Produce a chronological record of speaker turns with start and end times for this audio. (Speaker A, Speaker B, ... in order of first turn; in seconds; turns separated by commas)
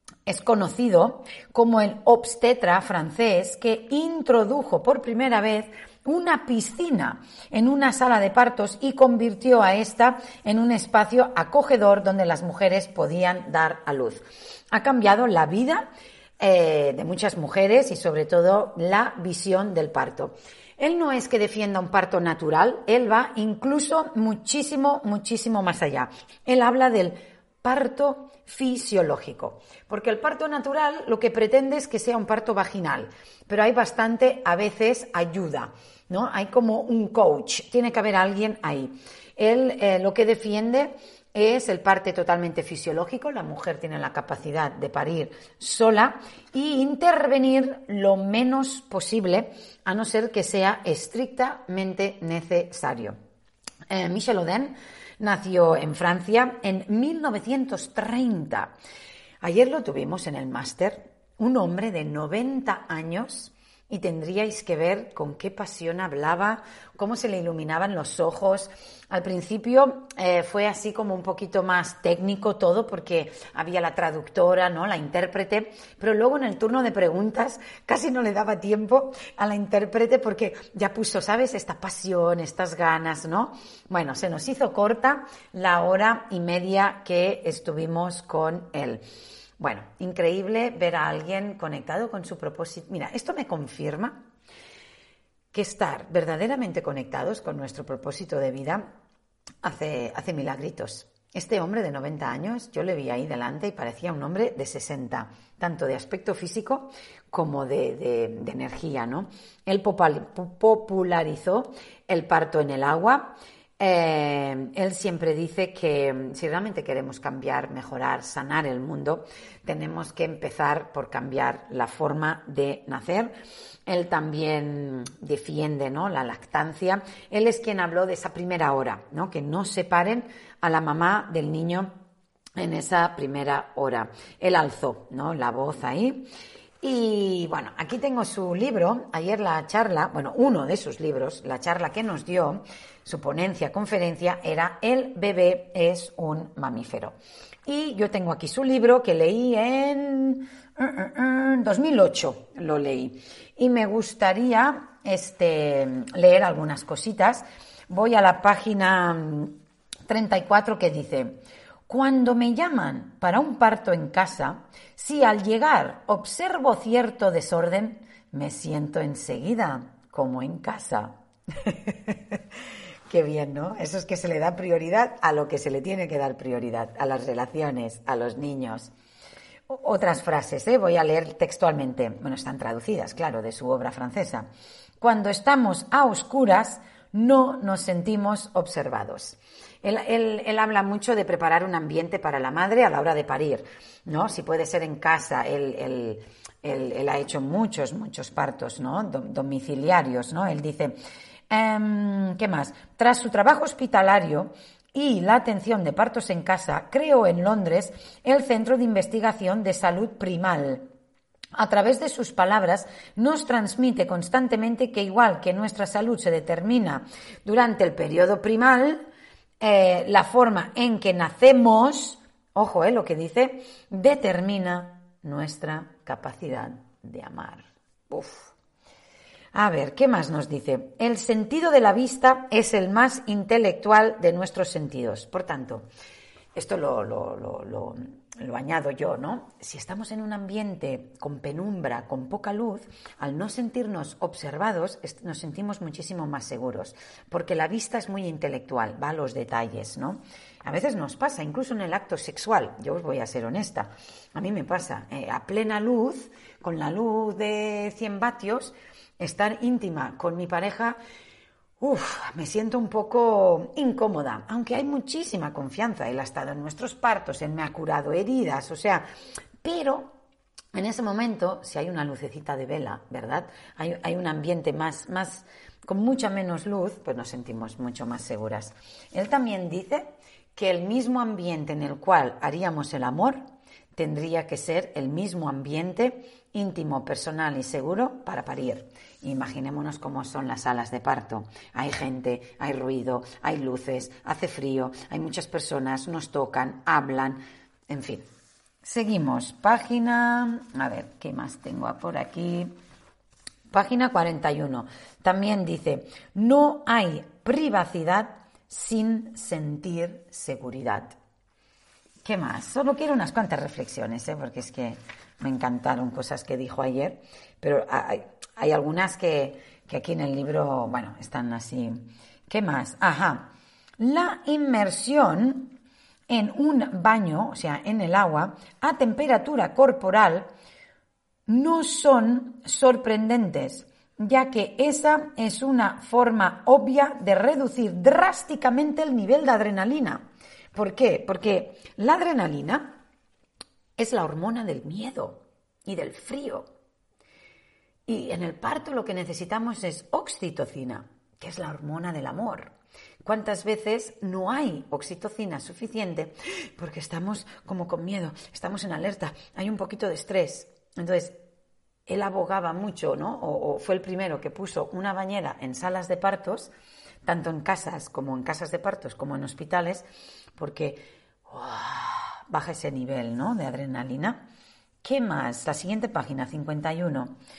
Speaker A: 0.2-53.1, Speaker A: 53.9-58.7, Speaker A: 59.4-89.0, Speaker A: 89.6-94.3, Speaker A: 95.5-98.9, Speaker A: 99.6-123.3, Speaker A: 123.8-131.9, Speaker A: 132.6-136.3, Speaker A: 136.8-172.4, Speaker A: 173.1-178.9, Speaker A: 179.7-184.5, Speaker A: 185.0-200.9, Speaker A: 201.5-210.9, Speaker A: 211.6-219.1, Speaker A: 219.6-228.5, Speaker A: 229.5-235.9, Speaker A: 236.5-261.0, Speaker A: 261.8-269.0, Speaker A: 269.6-270.1, Speaker A: 270.7-283.4, Speaker A: 283.9-298.2, Speaker A: 298.8-302.7, Speaker A: 303.7-311.1, Speaker A: 312.2-325.8, Speaker A: 326.3-330.5, Speaker A: 331.5-343.0, Speaker A: 344.0-346.7, Speaker A: 348.1-352.7, Speaker A: 353.2-361.4, Speaker A: 362.1-366.7, Speaker A: 367.2-370.1, Speaker A: 370.6-374.4, Speaker A: 375.0-377.4